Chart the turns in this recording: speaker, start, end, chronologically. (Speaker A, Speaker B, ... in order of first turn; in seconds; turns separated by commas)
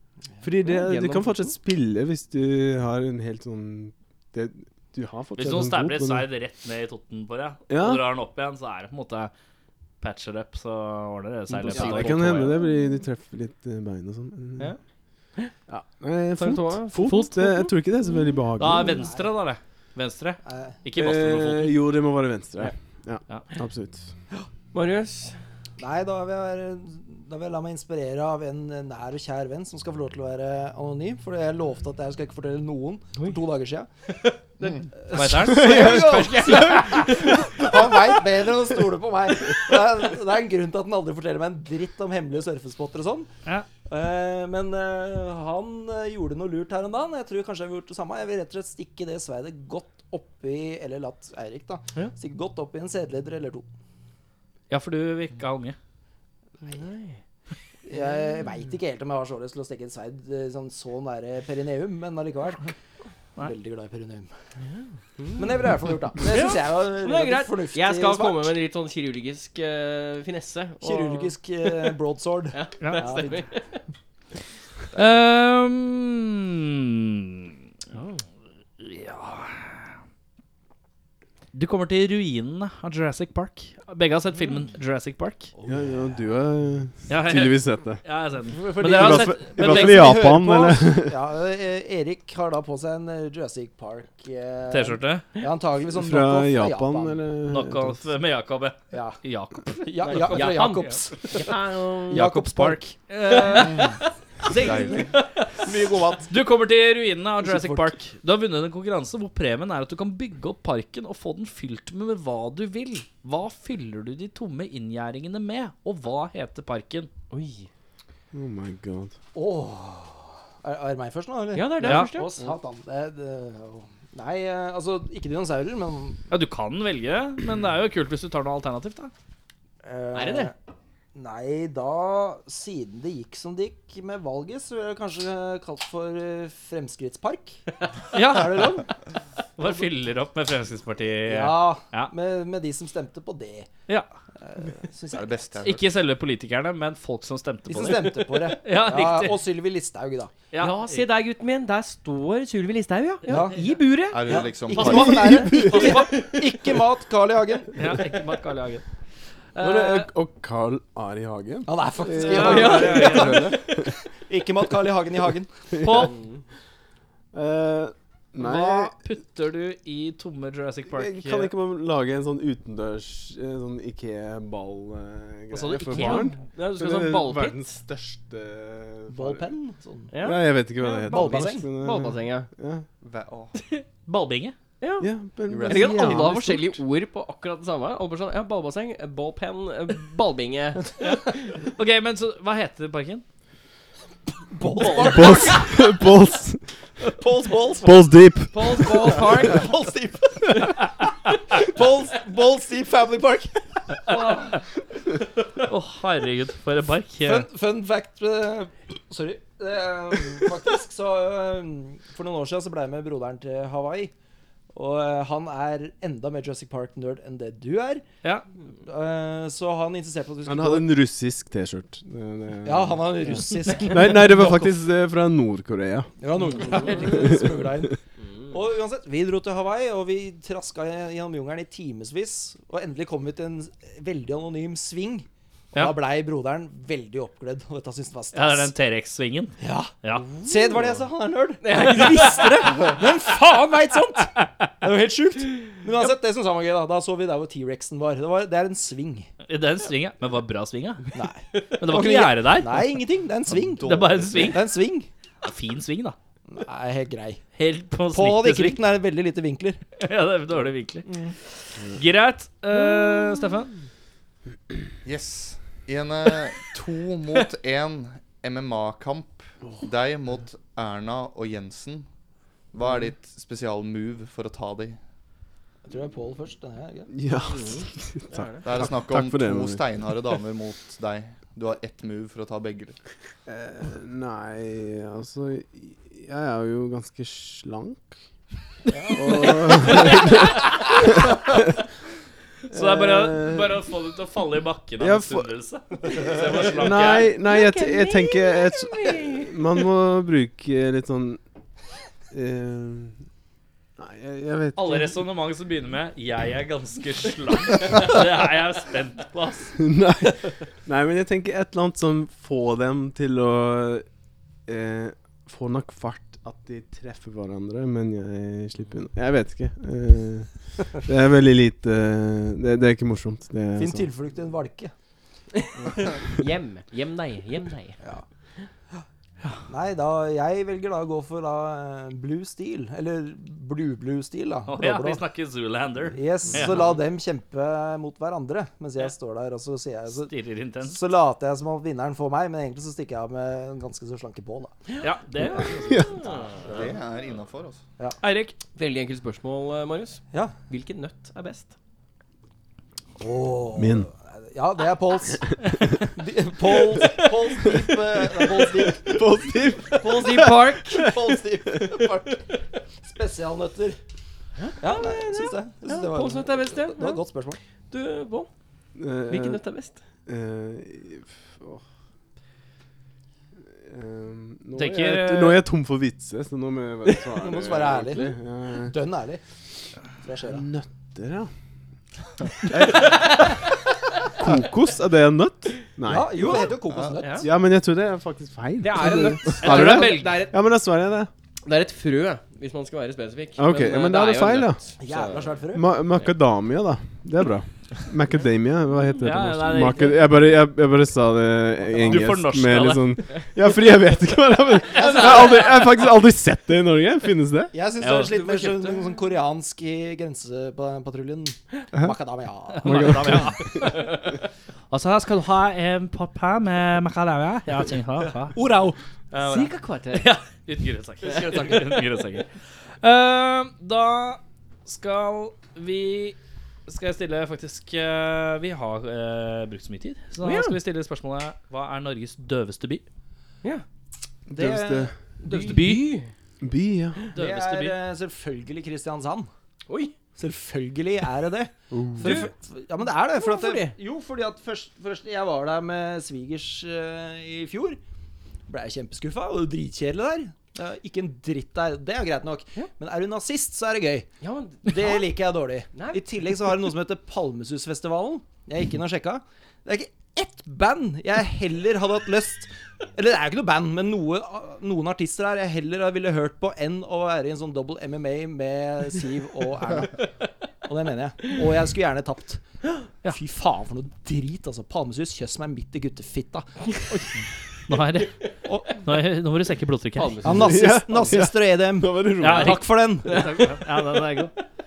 Speaker A: 0.4-6.3, Speaker B: 0.6-1.6, Speaker C: 5.4-9.3, Speaker A: 7.7-8.1, Speaker C: 10.0-12.6, Speaker B: 11.5-12.6, Speaker A: 11.7-14.8, Speaker A: 15.7-19.0, Speaker B: 16.4-17.7, Speaker C: 18.6-21.8, Speaker D: 18.9-19.3, Speaker D: 20.4-20.8, Speaker A: 21.0-24.1, Speaker B: 24.7-25.4, Speaker D: 25.8-33.9, Speaker D: 35.0-43.3, Speaker C: 35.1-36.9, Speaker A: 35.4-36.4, Speaker B: 35.6-37.7, Speaker D: 43.9-53.7, Speaker C: 54.7-55.8, Speaker B: 56.6-57.2, Speaker D: 57.9-62.7, Speaker D: 63.4-64.3, Speaker B: 64.7-65.5, Speaker D: 65.4-68.5, Speaker B: 66.2-72.0, Speaker D: 70.8-73.4, Speaker B: 72.5-73.8, Speaker C: 72.8-73.3, Speaker C: 74.9-77.5, Speaker B: 77.9-78.2, Speaker C: 78.8-79.7, Speaker C: 81.5-85.5, Speaker D: 85.6-86.0, Speaker A: 85.7-88.0, Speaker C: 87.1-90.3, Speaker D: 88.5-97.2, Speaker A: 88.8-91.2, Speaker C: 94.7-95.3, Speaker A: 95.9-98.0, Speaker C: 97.5-101.0, Speaker D: 98.9-99.2, Speaker D: 99.8-101.5, Speaker B: 100.1-102.2, Speaker D: 102.1-103.4, Speaker C: 102.1-104.0, Speaker B: 103.4-103.7, Speaker E: 104.5-105.2, Speaker C: 104.5-105.5, Speaker D: 105.6-106.3, Speaker C: 106.3-117.1, Speaker D: 107.4-107.9, Speaker B: 117.3-117.7, Speaker A: 118.3-119.1, Speaker D: 119.3-126.2, Speaker B: 121.5-122.3, Speaker C: 121.8-122.1, Speaker C: 126.3-129.1, Speaker D: 129.8-130.5, Speaker B: 130.1-130.5, Speaker D: 131.2-138.9, Speaker C: 138.1-138.9, Speaker C: 139.6-142.1, Speaker D: 141.3-143.7, Speaker D: 144.4-145.5, Speaker E: 145.1-145.9, Speaker C: 145.6-149.4, Speaker D: 147.7-150.3, Speaker C: 150.5-151.1, Speaker B: 150.6-156.2, Speaker D: 153.3-153.6, Speaker E: 154.1-155.3, Speaker D: 154.2-158.0, Speaker C: 154.7-156.4, Speaker A: 154.9-156.1, Speaker C: 157.8-158.8, Speaker C: 159.6-160.1, Speaker A: 159.6-163.9, Speaker D: 161.7-165.6, Speaker C: 162.2-163.6, Speaker B: 162.4-163.7, Speaker A: 165.7-166.1, Speaker C: 165.8-166.2, Speaker B: 166.0-166.4, Speaker A: 167.3-168.9, Speaker C: 168.4-171.5, Speaker A: 170.9-179.4, Speaker C: 175.5-176.4, Speaker B: 175.9-177.8, Speaker D: 179.1-180.1, Speaker B: 180.1-182.5, Speaker A: 180.2-182.9, Speaker D: 181.1-181.7, Speaker E: 183.0-183.5, Speaker C: 183.7-184.6, Speaker B: 184.8-185.1, Speaker A: 185.0-186.8, Speaker E: 185.5-186.2, Speaker B: 185.6-190.9, Speaker C: 191.1-193.2, Speaker D: 194.5-196.1, Speaker C: 194.7-195.2, Speaker A: 194.9-196.7, Speaker D: 197.0-204.7, Speaker A: 197.8-199.4, Speaker B: 198.5-199.6, Speaker C: 204.1-204.4, Speaker C: 205.6-207.5, Speaker D: 207.2-214.1, Speaker D: 214.7-218.1, Speaker D: 218.8-221.0, Speaker A: 220.4-226.1, Speaker D: 222.7-224.7, Speaker D: 226.2-228.0, Speaker B: 226.6-227.1, Speaker A: 227.1-227.9, Speaker D: 228.5-238.7, Speaker C: 238.3-240.3, Speaker D: 239.6-249.3, Speaker B: 241.6-243.0, Speaker C: 249.5-251.1, Speaker D: 251.1-255.1, Speaker C: 251.8-252.9, Speaker E: 253.5-254.6, Speaker C: 253.8-254.7, Speaker C: 255.4-256.2, Speaker D: 256.5-257.4, Speaker C: 257.6-258.8, Speaker D: 258.1-259.8, Speaker C: 260.0-261.1, Speaker C: 261.8-263.7, Speaker E: 265.1-272.1, Speaker E: 272.7-275.0, Speaker D: 275.8-277.1, Speaker A: 277.1-279.8, Speaker B: 277.5-278.6, Speaker E: 278.6-283.0, Speaker A: 283.5-288.1, Speaker D: 288.9-290.1, Speaker A: 289.1-291.6, Speaker C: 289.3-290.9, Speaker C: 292.7-297.3, Speaker A: 292.7-293.8, Speaker A: 295.0-295.5, Speaker A: 296.7-301.4, Speaker B: 297.1-299.6, Speaker A: 302.3-303.2, Speaker A: 304.0-305.2, Speaker C: 304.8-309.8, Speaker A: 309.8-314.1, Speaker A: 314.7-324.1, Speaker D: 323.8-324.9, Speaker B: 325.6-328.0, Speaker D: 329.7-335.2, Speaker C: 334.7-336.8, Speaker D: 336.1-344.8, Speaker C: 340.1-341.0, Speaker B: 344.9-346.8, Speaker C: 345.0-346.5, Speaker A: 345.6-346.2, Speaker E: 346.6-347.8, Speaker C: 348.2-348.6, Speaker B: 348.8-351.7, Speaker D: 353.2-359.5, Speaker A: 353.8-354.1, Speaker A: 358.9-362.0, Speaker D: 360.0-362.5, Speaker B: 360.1-361.1, Speaker D: 363.0-364.0, Speaker B: 364.6-367.2, Speaker D: 364.8-367.6, Speaker B: 367.9-368.5, Speaker A: 369.0-369.6, Speaker B: 369.3-370.0, Speaker A: 370.3-371.8, Speaker A: 373.8-378.9, Speaker C: 374.8-375.6, Speaker D: 377.4-379.4, Speaker D: 380.1-380.7, Speaker A: 380.5-381.5, Speaker A: 384.4-386.7, Speaker D: 386.1-387.5, Speaker E: 386.9-387.2, Speaker B: 387.2-387.5, Speaker A: 387.4-391.3, Speaker B: 388.8-390.6, Speaker C: 389.6-390.4, Speaker B: 391.6-395.5, Speaker A: 393.6-394.8, Speaker D: 395.0-395.9, Speaker A: 395.7-407.8, Speaker C: 399.2-400.3, Speaker C: 402.0-403.2, Speaker D: 405.0-405.8, Speaker B: 405.0-405.5, Speaker D: 407.7-413.5, Speaker C: 408.0-408.3, Speaker B: 408.1-409.1, Speaker C: 412.8-414.4, Speaker A: 412.8-413.9, Speaker C: 414.9-418.6, Speaker D: 418.5-419.0, Speaker C: 419.3-426.4, Speaker B: 419.4-420.3, Speaker B: 421.3-422.0, Speaker C: 426.9-433.0, Speaker B: 430.4-430.8, Speaker A: 434.5-435.1, Speaker D: 434.5-435.1, Speaker B: 435.4-436.3, Speaker C: 435.4-436.1, Speaker A: 436.6-437.3, Speaker C: 437.3-438.0, Speaker D: 437.4-439.5, Speaker B: 439.9-440.1, Speaker D: 440.4-448.0, Speaker A: 441.9-442.4, Speaker B: 442.2-442.5, Speaker B: 443.4-444.0, Speaker D: 448.7-454.3, Speaker B: 454.4-455.2, Speaker D: 454.9-470.3, Speaker B: 455.9-456.2, Speaker D: 470.8-472.6, Speaker D: 473.3-476.8, Speaker C: 477.9-480.4, Speaker D: 478.7-479.0, Speaker B: 480.2-480.9, Speaker D: 480.4-483.6, Speaker A: 480.5-482.8, Speaker C: 482.4-484.6, Speaker B: 483.2-484.3